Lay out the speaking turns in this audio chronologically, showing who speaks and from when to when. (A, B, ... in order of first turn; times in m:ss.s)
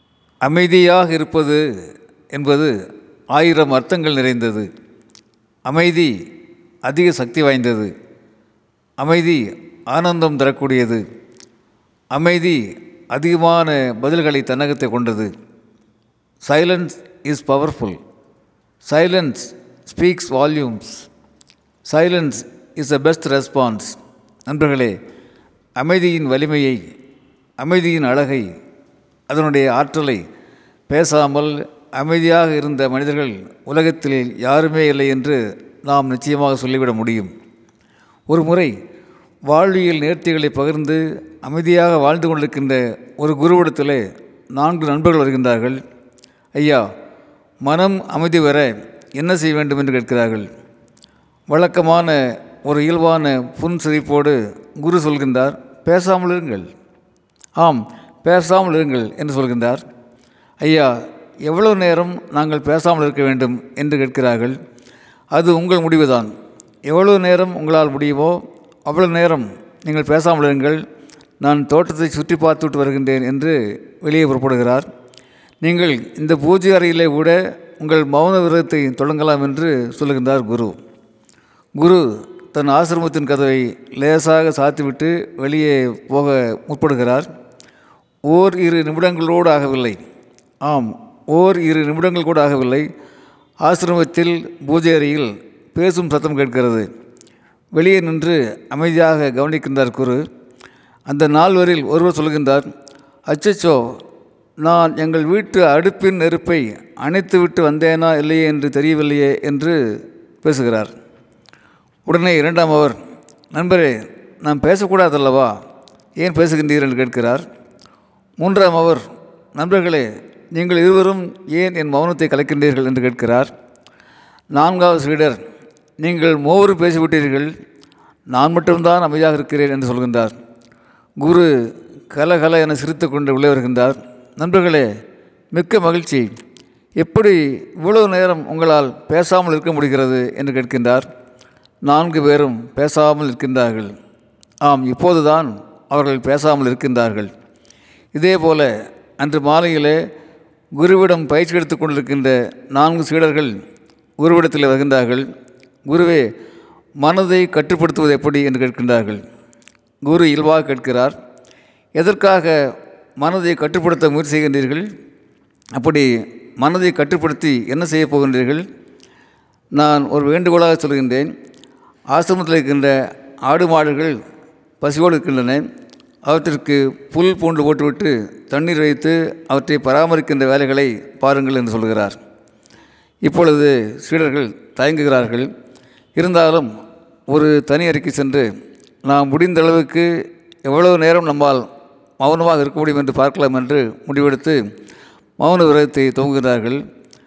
0:00.4-0:01.6 A
0:02.3-0:02.7 A
0:03.3-0:04.7 A
0:05.6-0:06.1 A
0:06.8-0:07.9 A
0:09.0-0:11.0 A
0:12.1-0:15.3 A
0:16.4-0:18.0 A
0:18.8-0:21.1 A
0:21.9-0:25.0 A
0:25.8-0:26.8 A
0:27.6-0:28.5 A
0:29.3-0:30.2 A
0:30.9-0:37.3 A
0:38.3-0:38.7 A
0:39.5-0:44.0 A
0:44.5-0:45.8 A
0:46.6-0:46.8 A
0:47.6-0:50.5 A
0:51.5-0:56.7 A
0:57.6-0:59.8 A
1:00.6-1:04.6 A
1:05.3-1:06.3 A
1:06.9-1:10.8 A
1:11.4-1:14.9 A
1:15.6-1:20.8 A
1:21.8-1:27.3 A
1:28.3-1:30.0 A
1:30.6-1:32.9 A
1:33.6-1:36.8 A
1:37.7-1:40.2 A
1:41.1-1:42.7 A
1:43.3-1:43.9 A
1:44.6-1:50.9 A
1:52.0-1:53.0 A
1:53.5-1:55.5 A
1:56.2-1:57.4 A
1:58.4-1:59.0 A
1:59.5-2:03.5 A
2:04.5-2:05.4 A
2:06.0-2:07.5 A
2:08.3-2:10.3 A
2:11.2-2:11.5 A
2:12.1-2:14.9 A
2:15.5-2:16.3 A
2:17.0-2:21.1 A
2:21.8-2:23.9 A
2:24.6-2:27.3 A
2:28.1-2:30.0 A
2:30.8-2:33.5 A
2:34.2-2:35.3 A
2:35.9-2:36.3 A
2:37.0-2:39.2 A
2:40.0-2:41.1 A
2:42.0-2:44.8 A
2:45.8-2:48.6 A
2:49.8-2:51.3 A
2:52.1-2:54.2 A
2:54.8-2:55.6 A
2:56.2-3:02.2 A
3:03.2-3:05.5 A
3:06.2-3:06.7 A
3:07.3-3:08.5 A
3:09.0-3:10.1 A
3:10.6-3:11.6 A
3:12.2-3:14.6 A
3:15.4-3:16.8 A